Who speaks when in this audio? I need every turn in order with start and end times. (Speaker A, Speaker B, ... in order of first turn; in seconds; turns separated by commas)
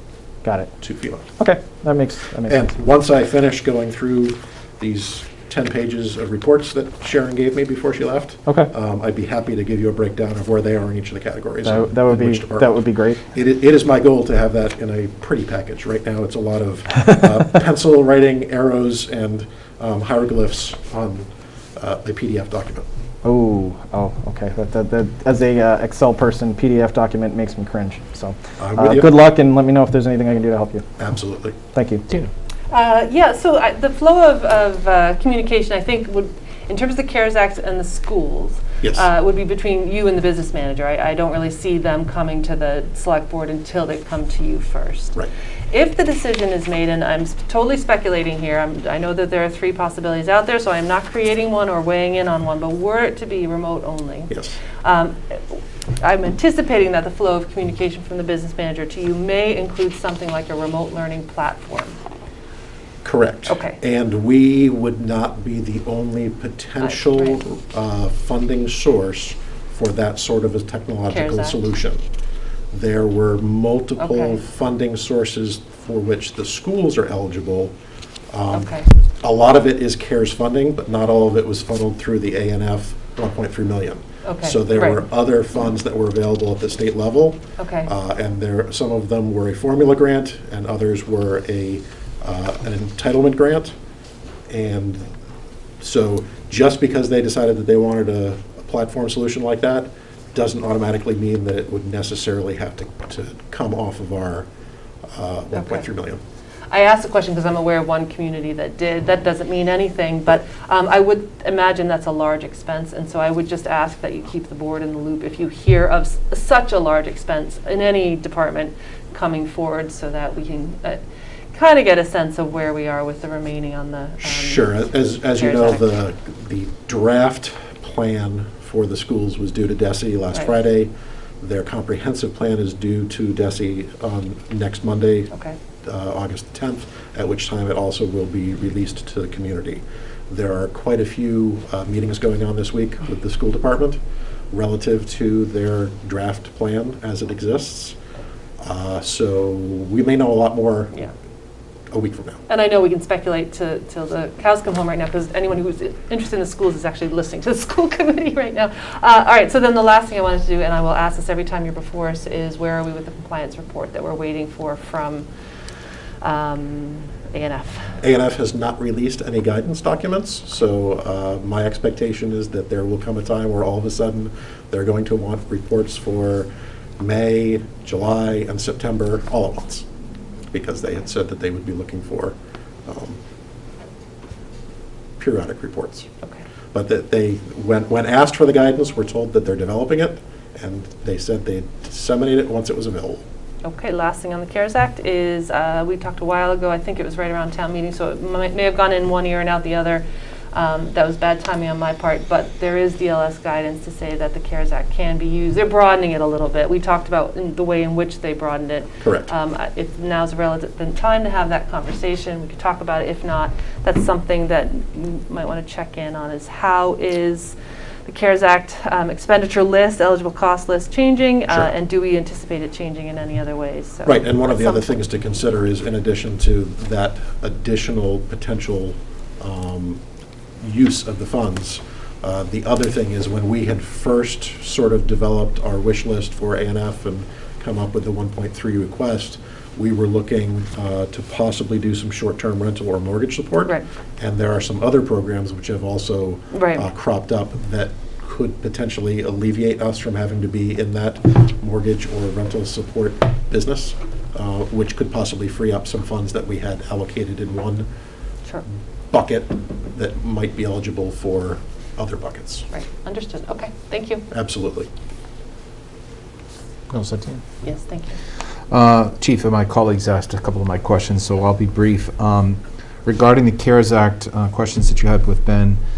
Speaker A: 0.4-0.7, Speaker B: 0.8-1.3, Speaker A: 1.4-2.6, Speaker B: 2.5-22.9, Speaker A: 11.6-13.2, Speaker A: 23.2-30.9, Speaker B: 28.6-29.2, Speaker B: 31.0-31.6, Speaker A: 31.7-32.0, Speaker C: 32.7-45.2, Speaker B: 38.8-39.1, Speaker C: 45.7-54.3, Speaker C: 54.8-62.0, Speaker B: 63.0-72.0, Speaker C: 63.5-63.8, Speaker C: 66.8-67.4, Speaker C: 71.1-71.7, Speaker B: 72.7-77.7, Speaker C: 74.0-74.4, Speaker B: 78.3-93.7, Speaker C: 78.5-78.9, Speaker C: 84.2-85.0, Speaker C: 87.6-87.9, Speaker B: 94.5-95.1, Speaker B: 95.8-104.5, Speaker B: 105.1-106.2, Speaker C: 105.5-105.8, Speaker C: 106.7-121.0, Speaker C: 121.5-125.9, Speaker B: 124.2-135.3, Speaker C: 135.3-135.6, Speaker B: 135.8-144.0, Speaker B: 144.5-148.0, Speaker B: 148.6-150.9, Speaker B: 151.9-152.4, Speaker C: 152.5-165.3, Speaker C: 166.2-168.0, Speaker B: 168.0-179.8, Speaker B: 180.5-183.2, Speaker B: 185.2-186.1, Speaker B: 186.7-193.2, Speaker C: 193.6-225.0, Speaker B: 209.0-209.3, Speaker B: 224.1-230.0, Speaker B: 230.6-257.9, Speaker C: 246.5-246.9, Speaker B: 259.1-262.7, Speaker C: 262.7-264.2, Speaker B: 264.3-264.9, Speaker D: 266.9-267.4, Speaker C: 267.6-268.2, Speaker D: 268.7-275.8